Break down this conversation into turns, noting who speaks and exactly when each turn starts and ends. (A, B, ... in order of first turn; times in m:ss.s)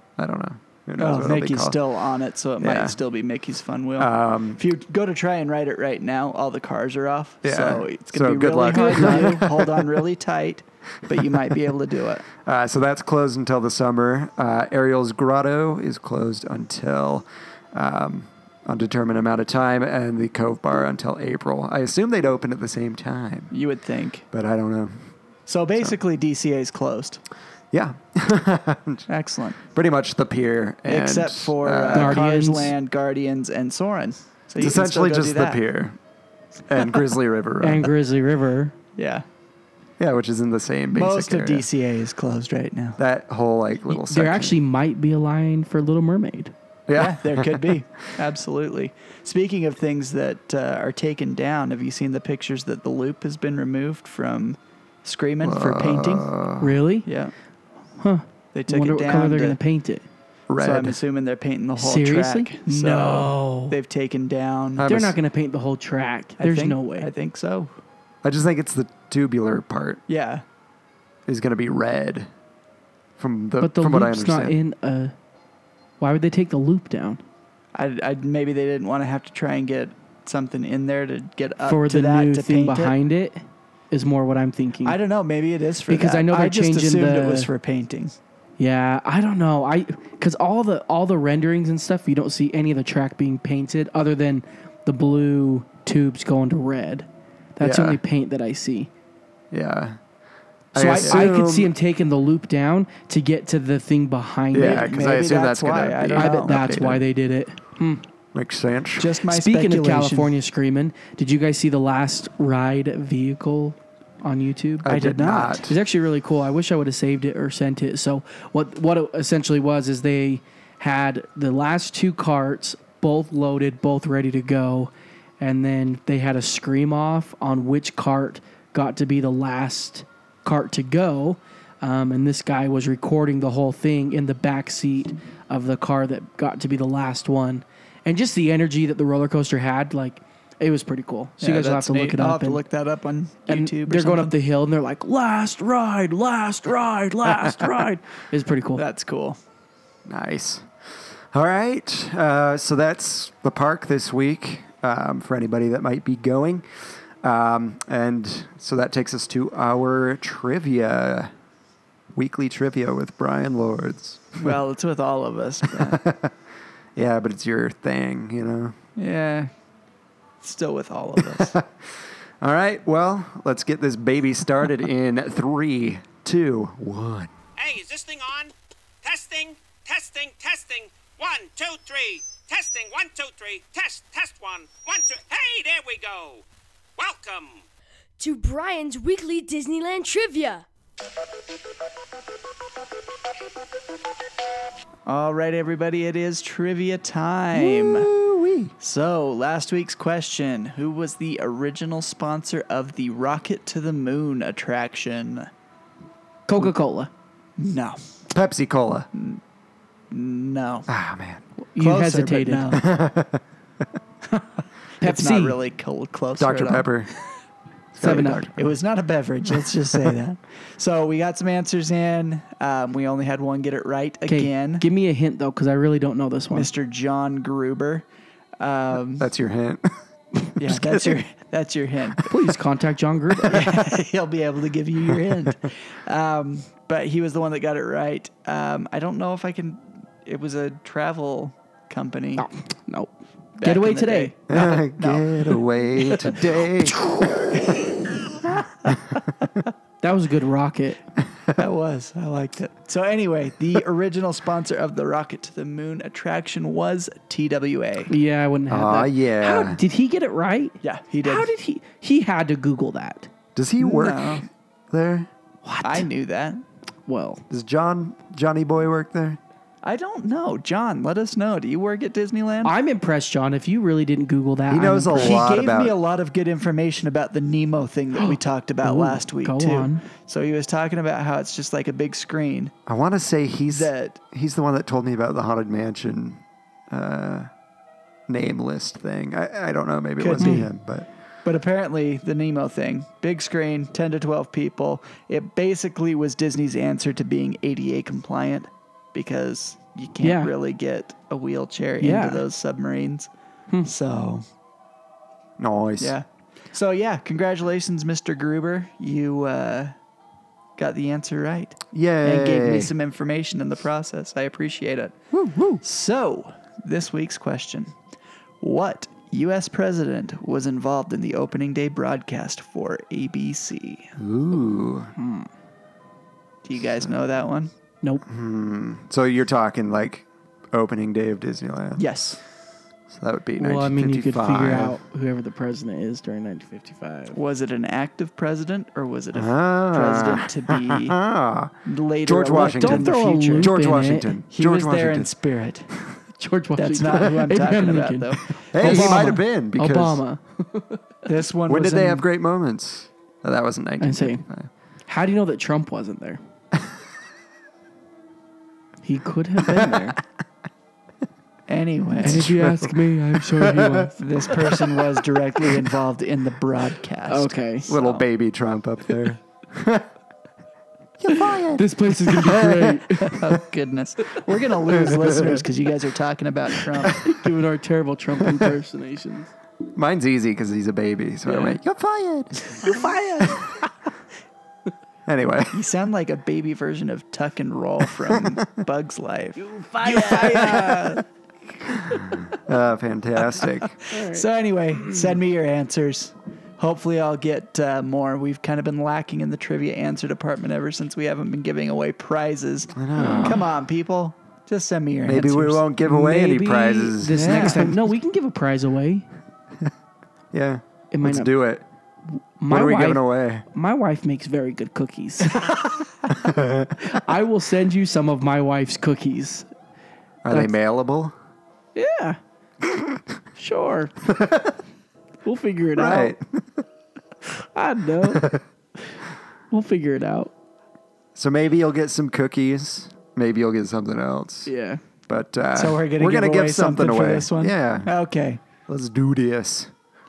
0:00.2-0:01.8 A
0:01.0-0:12.3 B
0:02.6-0:03.0 A
0:04.0-0:04.6 A
0:07.4-0:10.0 A
0:08.7-0:09.5 C
0:12.4-0:23.5 A
0:23.5-0:24.3 B
0:24.3-0:25.0 A
0:25.5-0:27.2 B
0:27.7-0:29.1 A
0:29.1-0:29.6 B
0:29.7-0:32.2 A
0:30.9-0:35.6 B
0:31.9-0:32.7 C
0:34.6-0:36.0 A
0:36.7-0:37.9 A
0:37.6-0:38.8 C
0:39.0-0:39.2 B
0:40.0-0:41.7 A
0:40.9-0:43.0 B
0:43.0-0:44.6 A
0:43.9-0:46.5 C
0:46.9-0:47.7 A
0:47.0-0:56.3 B
0:55.4-0:56.8 A
0:56.6-0:57.1 C
0:57.1-0:57.3 B
0:58.0-1:00.0 C
0:58.5-0:59.6 B
1:00.5-1:01.0 A
1:00.6-1:04.8 B
1:01.8-1:03.8 C
1:04.8-1:05.2 A
1:04.8-1:07.1 C
1:06.4-1:07.7 B
1:08.2-1:10.0 A
1:10.1-1:10.4 B
1:11.3-1:12.3 A
1:13.2-1:14.6 A
1:13.6-1:15.1 C
1:16.0-1:17.2 C
1:17.8-1:23.0 B
1:21.7-1:25.0 C
1:24.8-1:28.2 B
1:25.9-1:27.5 C
1:28.6-1:38.9 C
1:37.6-1:38.0 A
1:39.5-1:40.0 A
1:40.7-1:41.7 A
1:40.8-1:44.9 C
1:41.0-1:41.3 B
1:44.5-1:47.1 A
1:44.6-1:46.6 B
1:46.2-1:48.0 C
1:48.3-1:49.2 A
1:49.0-1:50.3 B
1:49.3-1:54.9 C
1:54.8-1:55.8 A
1:54.9-1:55.7 B
1:55.7-2:22.6 C
2:21.4-2:24.3 B
2:23.5-2:28.8 C
2:27.3-2:27.6 A
2:28.8-2:29.4 B
2:30.1-2:30.7 A
2:31.3-2:36.7 A
2:37.2-2:41.3 A
2:42.1-2:44.6 A
2:44.4-2:46.0 B
2:45.7-2:46.3 A
2:47.0-2:48.8 A
2:49.0-2:49.5 B
2:50.4-2:51.6 B
2:51.2-2:57.3 A
2:57.6-3:06.4 D
3:07.0-3:07.6 D
3:08.2-3:10.7 E
3:15.1-3:18.1 B
3:17.5-3:18.7 A
3:18.8-3:25.5 B
3:26.5-3:27.1 C
3:27.6-3:28.0 B
3:28.3-3:29.1 A
3:29.1-3:29.4 B
3:30.1-3:30.9 B
3:30.9-3:31.4 A
3:31.7-3:32.8 C
3:31.8-3:32.9 B
3:32.7-3:33.4 A
3:35.0-3:35.6 C
3:35.0-3:36.9 B
3:36.4-3:37.1 A
3:37.9-3:38.7 A
3:38.0-3:38.5 C
3:38.0-3:44.8 B
3:44.3-3:46.7 C
3:46.5-3:48.1 B
3:48.6-3:49.3 B
3:49.2-3:50.0 A
3:50.6-3:52.3 B
3:50.6-3:51.0 A
3:52.3-3:53.8 C
3:53.5-4:02.5 B
4:02.4-4:04.3 C
4:03.6-4:06.3 B
4:04.5-4:07.0 A
4:06.9-4:07.9 C
4:08.9-4:09.2 A
4:10.0-4:11.0 C
4:11.6-4:18.1 B
4:18.1-4:23.3 C
4:18.7-4:19.8 A
4:20.8-4:21.5 B
4:23.6-4:25.3 A
4:23.8-4:24.5 B
4:25.6-4:26.1 C
4:25.8-4:26.6 B
4:27.1-4:27.4 C
4:27.5-4:29.4 A
4:29.8-4:32.7 B
4:32.6-4:35.4 C
4:34.7-4:36.0 A
4:35.1-4:42.7 B
4:38.2-4:40.0 C
4:42.9-4:47.5 A
4:43.7-4:44.2 B
4:48.3-4:51.1 A
4:50.2-4:50.7 B
4:50.4-4:50.7 C
4:51.4-5:03.3 B
5:00.2-5:00.5 C
5:02.0-5:02.4 C
5:03.8-5:04.4 B
5:05.6-5:06.2 A
5:06.0-5:09.9 B
5:10.8-5:15.2 B
5:11.9-5:12.9 A
5:15.3-5:15.8 A
5:15.8-5:17.9 B
5:18.6-5:24.1 B
5:24.2-5:25.1 A
5:25.2-5:25.5 C
5:26.6-5:27.7 B
5:28.2-5:32.1 A
5:32.0-5:32.4 B
5:33.1-5:35.0 A
5:33.6-5:37.4 C
5:37.3-5:41.2 B
5:39.3-5:41.7 A
5:41.9-5:43.7 B
5:42.2-5:45.3 A
5:42.8-5:44.4 C
5:44.5-5:45.9 B
5:46.4-5:51.0 C
5:46.8-5:49.4 B
5:48.7-5:50.2 A
5:51.3-5:52.3 B
5:51.7-5:54.7 A
5:54.0-5:54.4 C
5:55.1-5:56.4 C
5:59.0-6:00.2 C
5:59.6-6:00.0 A
6:01.7-6:02.5 B
6:02.2-6:04.2 C
6:02.2-6:04.1 A
6:04.2-6:08.2 B
6:04.8-6:05.0 A
6:07.3-6:07.9 C
6:07.9-6:10.1 A
6:11.2-6:13.3 A
6:11.8-6:13.4 C
6:13.3-6:17.2 B
6:14.9-6:15.6 A
6:17.1-6:19.5 C
6:18.4-6:18.8 A
6:19.9-6:22.8 A
6:21.5-6:21.8 B
6:22.8-6:23.7 C
6:22.8-6:23.5 B
6:25.3-6:25.8 A
6:25.7-6:31.2 B
6:29.6-6:31.2 C
6:32.1-6:32.4 C
6:32.2-6:33.9 A
6:33.6-6:45.8 B
6:34.1-6:34.4 C
6:43.0-6:43.7 A
6:43.2-6:43.6 C
6:45.2-6:48.1 A
6:46.0-6:49.3 C
6:47.3-6:47.9 B
6:50.5-6:51.8 A
6:51.1-6:51.5 C
6:52.6-6:55.9 C
6:52.7-6:53.6 A
6:56.3-6:57.0 A
6:57.0-6:59.7 C
7:00.4-7:01.4 A
7:02.0-7:02.4 C
7:02.9-7:03.2 A
7:03.6-7:04.1 C
7:04.2-7:04.8 A
7:05.4-7:06.4 C
7:06.0-7:06.8 A
7:07.5-7:08.5 C
7:08.2-7:08.6 A
7:09.7-7:10.5 C
7:11.4-7:14.7 A
7:14.7-7:15.0 C
7:15.3-7:18.1 A
7:15.7-7:18.6 B
7:18.9-7:19.9 A